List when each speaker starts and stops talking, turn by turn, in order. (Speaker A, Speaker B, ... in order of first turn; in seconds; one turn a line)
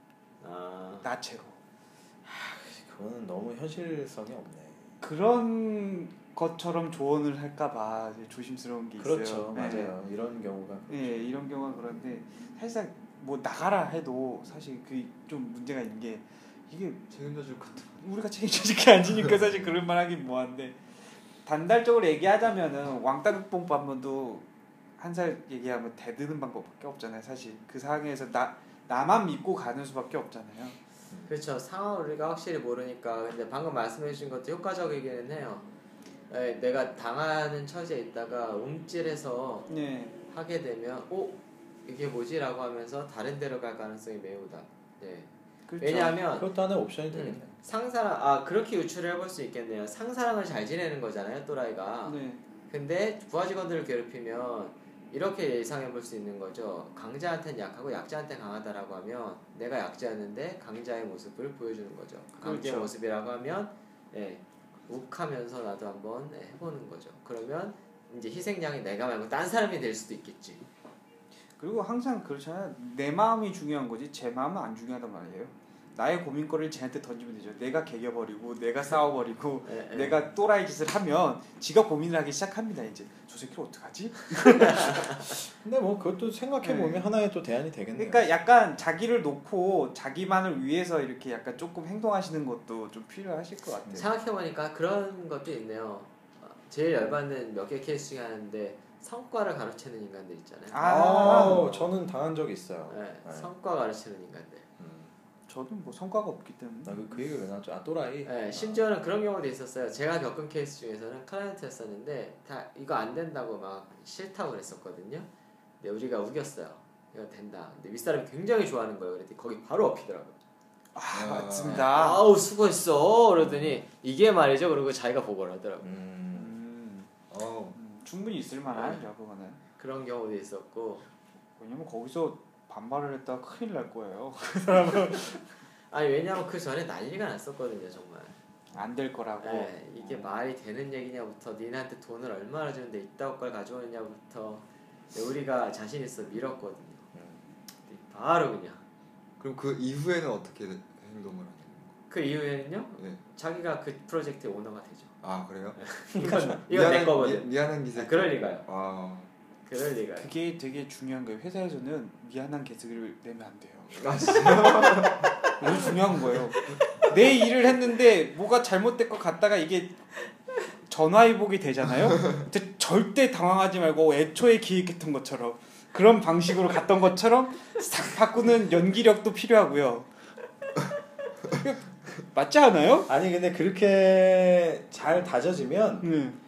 Speaker A: 0.4-1.1
Speaker B: 1.0-1.6
Speaker C: 2.2-4.9
Speaker B: 5.0-9.9
Speaker C: 9.0-11.3
Speaker B: 10.9-17.1
Speaker D: 17.1-18.1
Speaker B: 18.0-20.8
Speaker B: 21.4-24.4
Speaker B: 25.0-30.8
Speaker C: 31.1-31.4
Speaker A: 31.3-35.7
Speaker A: 36.3-39.7
Speaker B: 39.7-40.2
Speaker A: 40.3-46.5
Speaker B: 45.7-46.2
Speaker C: 46.3-47.5
Speaker A: 47.1-52.2
Speaker B: 52.0-52.4
Speaker A: 52.7-70.6
Speaker B: 62.4-62.9
Speaker B: 71.6-85.2
Speaker A: 79.7-80.2
Speaker C: 85.2-88.2
Speaker B: 86.6-87.1
Speaker B: 88.0-94.1
Speaker A: 93.9-101.9
Speaker B: 100.7-101.7
Speaker C: 100.8-103.5
Speaker A: 102.9-104.7
Speaker C: 104.8-105.1
Speaker B: 105.5-107.1
Speaker C: 106.8-108.9
Speaker A: 108.2-115.3
Speaker A: 115.8-120.4
Speaker B: 120.9-122.2
Speaker D: 121.1-121.8
Speaker A: 121.7-125.9
Speaker C: 123.4-123.8
Speaker C: 125.8-126.6
Speaker B: 126.3-127.1
Speaker D: 127.3-127.8
Speaker B: 127.7-129.6
Speaker A: 128.7-129.0
Speaker A: 129.8-131.1
Speaker B: 131.6-135.4
Speaker A: 135.9-138.3
Speaker B: 138.7-140.3
Speaker A: 139.4-147.1
Speaker C: 147.1-147.4
Speaker A: 147.9-148.8
Speaker D: 149.4-151.9
Speaker A: 152.1-155.1
Speaker D: 155.2-155.9
Speaker A: 155.8-158.6
Speaker C: 156.3-156.6
Speaker D: 156.6-159.3
Speaker A: 159.7-160.3
Speaker B: 160.2-170.0
Speaker D: 163.9-165.5
Speaker B: 170.9-180.1
Speaker B: 181.5-183.1
Speaker C: 183.1-186.1
Speaker B: 186.0-186.4